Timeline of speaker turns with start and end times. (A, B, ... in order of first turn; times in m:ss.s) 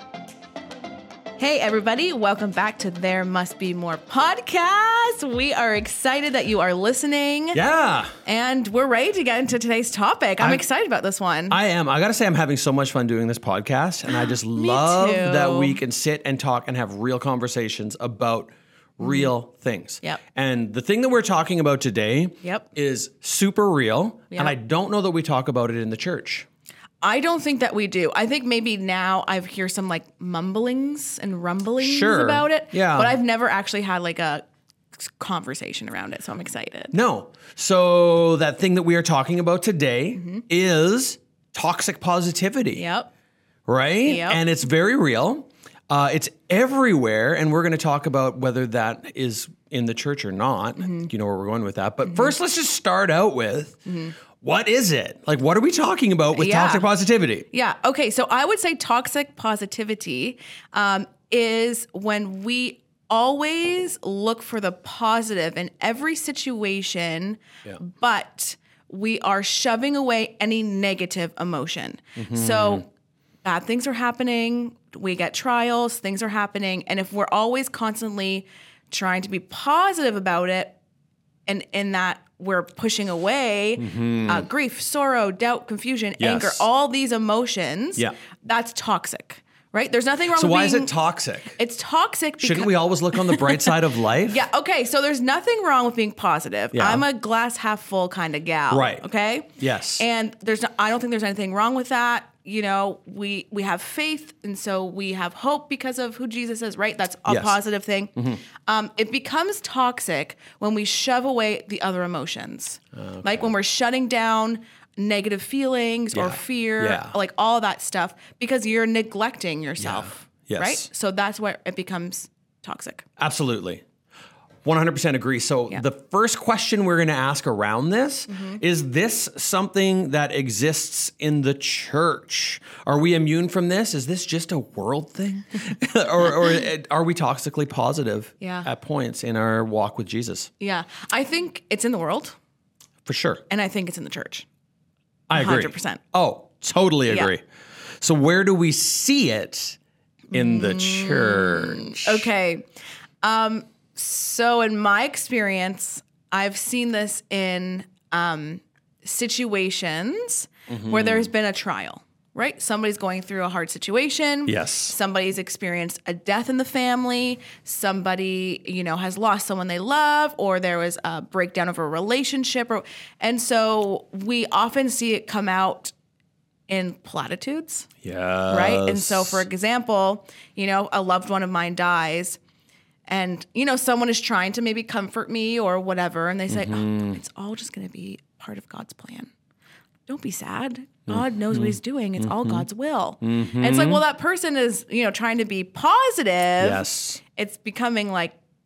0:01.4-0:07.6 A
0:07.5-0:08.1 B
0:08.2-0:11.6 A
0:11.5-0:26.4 B
0:14.1-0:15.8 A
0:19.0-0:19.3 A
0:27.0-0:34.4 A
0:31.8-0:33.2 B
0:35.0-0:36.9 A
0:36.9-0:42.8 B
0:40.2-0:40.4 A
0:42.7-0:43.1 A
0:43.7-0:53.8 B
0:44.0-0:44.4 A
0:50.8-0:51.1 A
0:52.0-0:52.3 A
0:53.8-0:54.2 A
0:54.4-0:57.5 B
0:56.3-0:56.8 A
0:57.5-1:12.9 A
1:12.2-1:12.8 B
1:13.4-1:20.8 A
1:21.5-1:30.9 A
1:23.8-1:24.5 B
1:26.2-1:26.6 B
1:30.3-1:31.6 B
1:31.6-1:33.7 A
1:32.4-1:34.4 B
1:34.2-2:03.0 A
1:36.7-1:37.0 B
1:38.7-1:39.0 B
1:39.6-1:40.0 B
1:47.3-1:47.6 B
1:48.2-1:48.4 B
1:53.0-1:53.5 B
1:56.1-1:57.1 B
1:59.8-2:00.9 B
2:03.2-2:03.8 B
2:04.6-2:20.5 B
2:08.3-2:08.6 A
2:18.4-2:18.7 A
2:20.6-2:22.4 A
2:23.0-2:23.4 B
2:23.5-2:24.4 A
2:25.3-2:27.4 B
2:25.3-2:26.0 A
2:28.0-2:29.8 B
2:30.3-2:32.6 A
2:30.3-2:32.3 B
2:33.2-2:55.9 A
2:40.7-2:41.3 B
2:44.4-2:45.0 B
2:56.7-2:57.9 A
2:58.0-2:59.4 B
2:58.5-3:02.4 A
3:03.1-3:09.3 A
3:06.5-3:07.2 B
3:10.1-3:18.4 A
3:11.1-3:12.6 B
3:13.2-3:14.0 B
3:16.6-3:17.2 B